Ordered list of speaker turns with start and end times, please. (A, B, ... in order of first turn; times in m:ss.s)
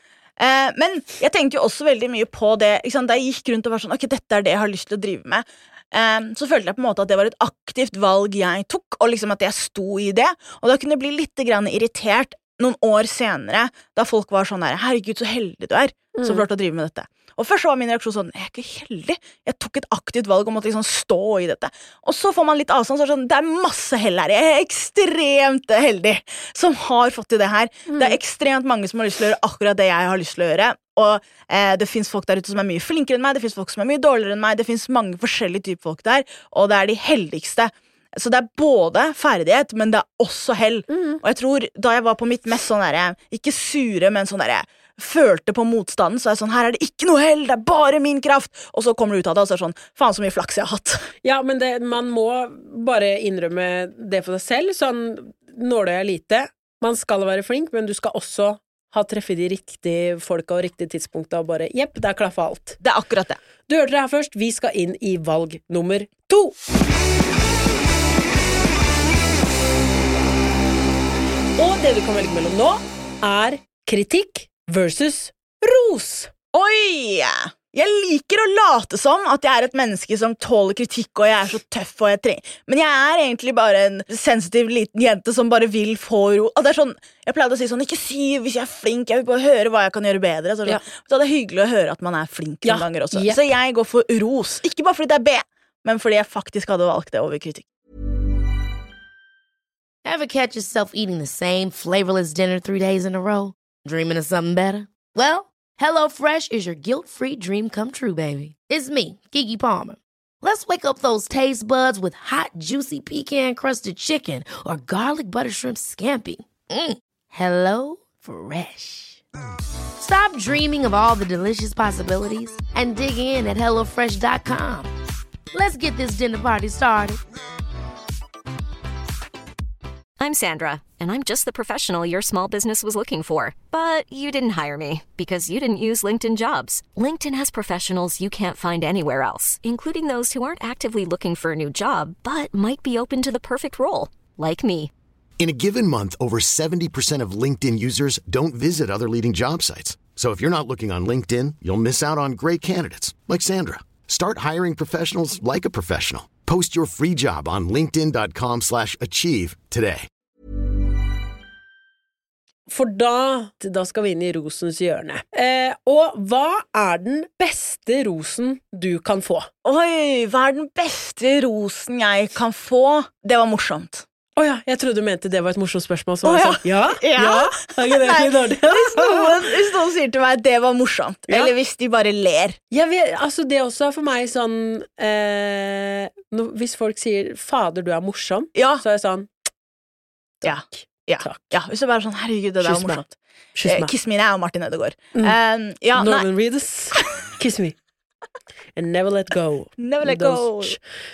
0:00.4-0:51.1 A
0:16.2-0:16.4 B
0:40.9-0:41.2 B
0:51.2-1:02.8 B
1:02.8-1:03.4 A
1:03.7-1:06.5 B
1:11.6-1:16.3 B
1:16.5-1:37.7 A
1:32.6-1:33.4 B
1:40.0-1:59.2 C
2:00.0-2:04.9 C
2:05.5-2:07.2 C
2:10.2-2:24.9 D
2:25.4-2:40.1 E
2:42.7-2:49.5 B
2:49.6-2:54.0 A
2:54.4-2:59.5 B
2:56.2-3:02.6 A
3:02.7-3:09.3 B
3:08.6-3:08.8 A
3:10.4-3:11.5 B
3:10.4-3:13.1 A
3:12.6-3:13.0 B
3:13.6-3:13.9 B
3:13.7-3:16.3 A
3:16.0-3:17.8 B
3:18.8-3:20.8 B
3:19.8-3:20.8 A